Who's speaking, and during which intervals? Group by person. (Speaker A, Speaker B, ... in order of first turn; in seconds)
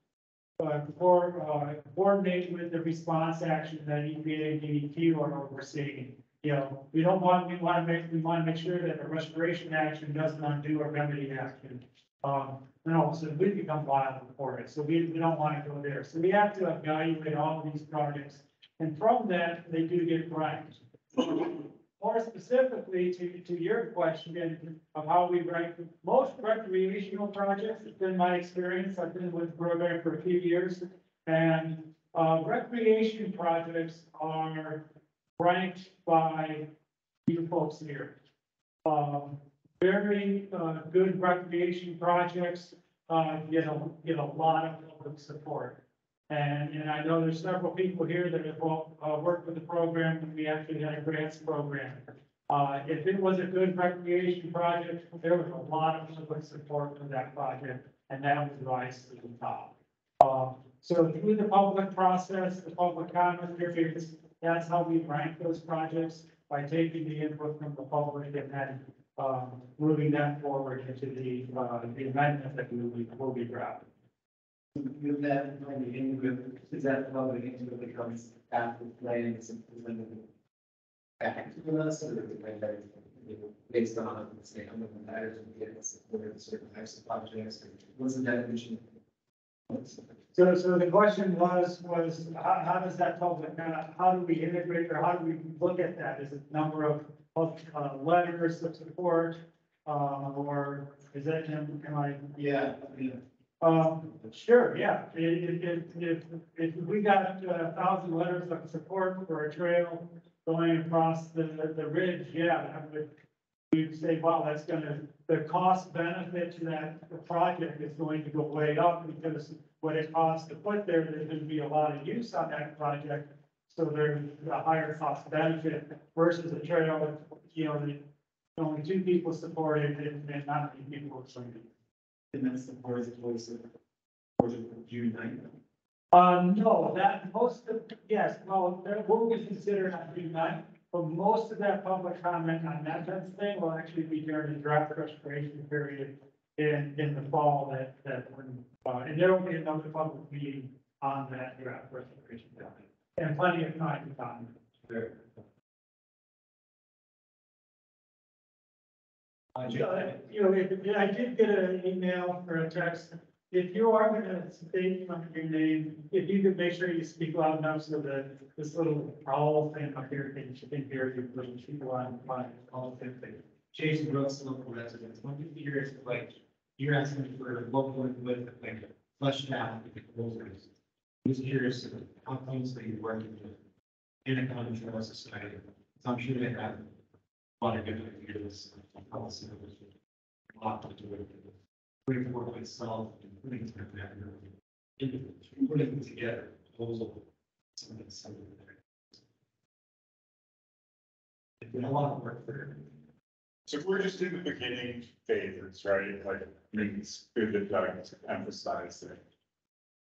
Speaker A: 0.6-36.7, 37.3-38.2, 38.9-73.9, 90.3-102.4, 103.6-113.1, 113.7-131.7, 136.1-154.6, 159.6-172.6
Speaker B: 74.8-80.3, 81.2-88.9, 89.7-90.0, 102.4-103.2, 132.3-133.7, 134.4-135.5, 159.6-159.8, 172.6-180.7, 181.2-183.6, 184.2-186.9, 187.6-189.9, 190.5-191.5, 192.1-194.5, 195.0-197.2, 197.8-198.7, 201.7-202.8
Speaker C: 203.7-209.2